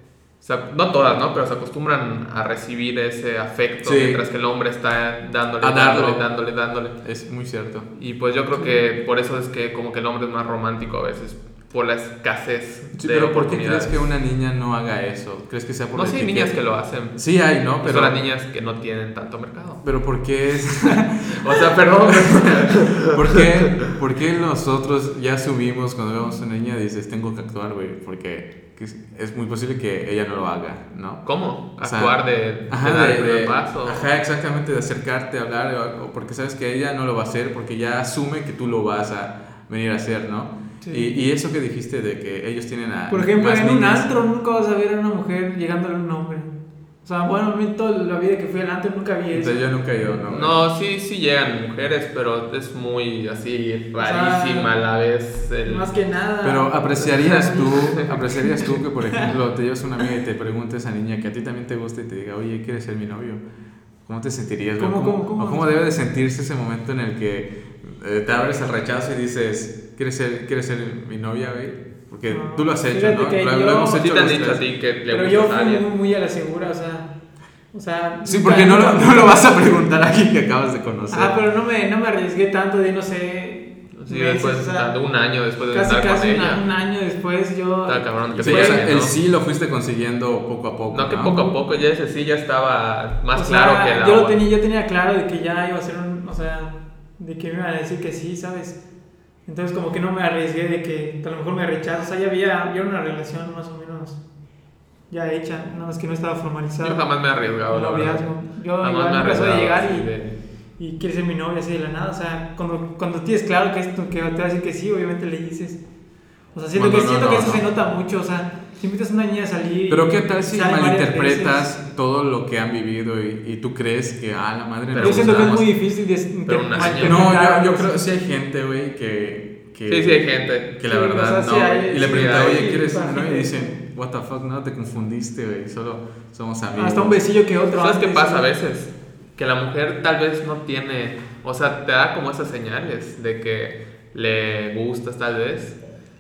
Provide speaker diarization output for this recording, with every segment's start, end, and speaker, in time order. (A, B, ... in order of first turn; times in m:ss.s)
0:00.4-0:07.0 A
0:03.8-0:04.2 B
0:05.6-0:06.2 B
0:07.0-0:07.9 B
0:07.9-0:14.1 A
0:13.0-0:16.6 B
0:15.9-0:17.2 A
0:17.1-0:18.2 B
0:17.7-0:19.8 A
0:19.8-0:31.3 B
0:21.2-0:23.9 A
0:31.2-0:34.1 A
0:31.8-0:44.1 B
0:40.8-0:41.1 C
0:43.1-0:46.5 C
0:47.0-0:49.6 C
0:49.3-0:50.6 B
0:50.3-0:55.9 A
0:54.0-0:54.7 C
0:55.6-0:59.3 C
0:56.4-1:03.4 B
0:57.3-0:58.2 A
1:04.1-1:14.6 B
1:04.8-1:05.7 C
1:12.3-1:14.1 C
1:13.9-1:15.9 A
1:15.1-1:17.1 C
1:17.7-1:19.6 C
1:18.2-1:21.4 B
1:21.1-1:24.9 C
1:24.0-1:26.6 A
1:25.7-1:28.9 C
1:27.9-1:29.2 A
1:28.4-1:31.4 B
1:30.9-1:34.4 A
1:33.3-1:38.8 C
1:39.5-1:44.2 C
1:45.1-1:47.1 C
1:46.8-1:50.4 A
1:47.7-1:50.1 C
1:50.8-1:55.8 C
1:56.6-2:01.7 C
1:56.7-1:57.6 B
1:59.9-2:05.6 B
2:04.9-2:05.8 A
2:05.0-2:08.0 C
2:06.5-2:07.3 A
2:07.0-2:17.2 B
2:09.9-2:10.8 A
2:10.8-2:13.8 C
2:11.4-2:12.7 A
2:16.8-2:18.5 C
2:17.7-2:25.8 A